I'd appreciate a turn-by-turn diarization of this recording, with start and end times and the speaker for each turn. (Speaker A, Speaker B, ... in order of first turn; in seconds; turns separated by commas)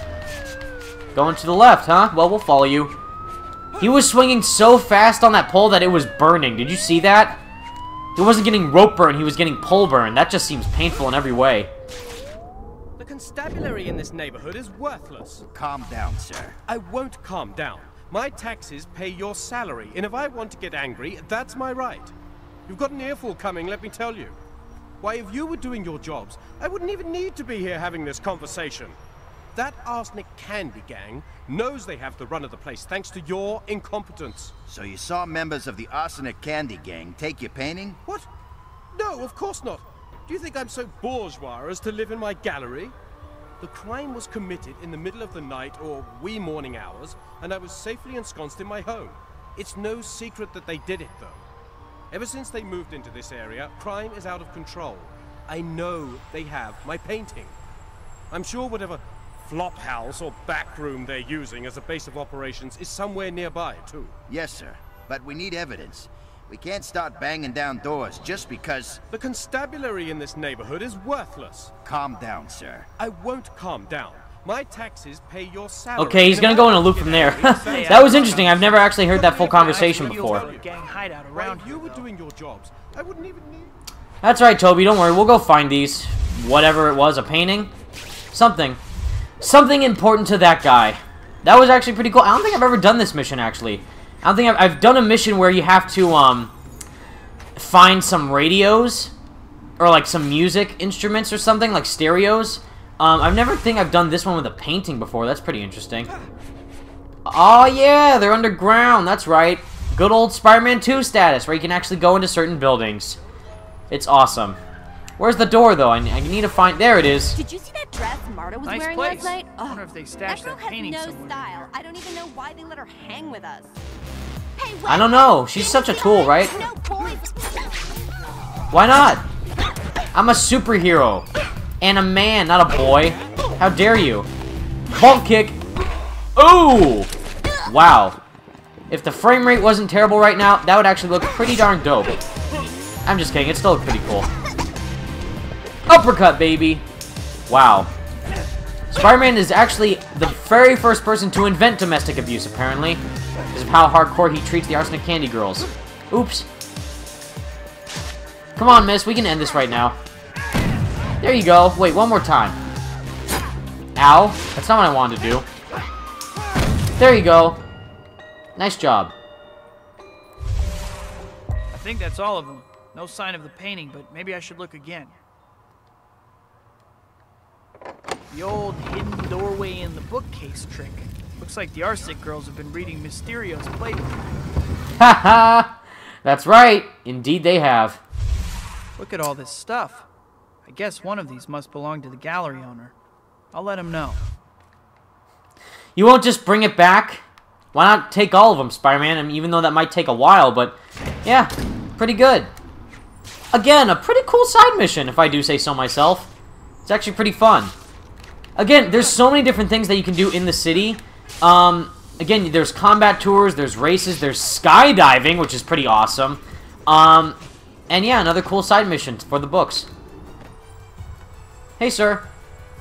Speaker A: 1.1-3.0, Speaker A: 3.8-7.4, Speaker A: 8.2-11.7, Speaker B: 13.0-15.4, Speaker C: 15.5-16.6, Speaker B: 16.7-22.1, Speaker B: 22.7-24.4, Speaker B: 25.0-29.0, Speaker B: 29.6-34.5, Speaker C: 34.7-38.0, Speaker B: 38.9-42.9, Speaker B: 43.6-51.4, Speaker B: 52.1-57.5, Speaker B: 58.3-64.1, Speaker C: 64.3-69.0, Speaker B: 69.1-71.7, Speaker C: 71.8-72.9, Speaker B: 73.0-80.8, Speaker A: 76.0-80.5, Speaker D: 77.4-82.1, Speaker B: 81.3-83.7, Speaker A: 84.2-87.7, Speaker A: 88.3-88.8, Speaker A: 89.4-96.5, Speaker A: 97.6-99.1, Speaker A: 99.8-106.1, Speaker A: 107.2-113.2, Speaker A: 113.9-114.6, Speaker A: 115.2-117.4, Speaker E: 117.3-123.8, Speaker D: 118.6-121.7, Speaker E: 124.6-127.7, Speaker A: 124.9-126.5, Speaker A: 128.7-129.2, Speaker A: 130.1-131.3, Speaker A: 131.8-134.3, Speaker A: 134.9-135.6, Speaker A: 136.4-137.1, Speaker A: 137.7-138.2, Speaker A: 138.9-142.2, Speaker A: 143.1-144.3, Speaker A: 145.9-146.8, Speaker A: 147.5-147.9, Speaker A: 148.9-153.0, Speaker A: 153.5-156.5, Speaker A: 158.6-160.0, Speaker A: 161.2-162.6, Speaker A: 164.0-165.5, Speaker A: 167.0-167.6, Speaker A: 168.6-169.1, Speaker D: 171.7-175.2, Speaker D: 178.3-184.3, Speaker A: 185.0-185.7, Speaker A: 186.2-188.0, Speaker D: 189.0-190.1, Speaker D: 190.7-192.9, Speaker D: 193.5-194.2, Speaker A: 196.0-202.5, Speaker A: 203.5-206.3, Speaker A: 206.8-207.7, Speaker A: 208.6-217.4, Speaker A: 217.9-219.9, Speaker A: 221.8-222.3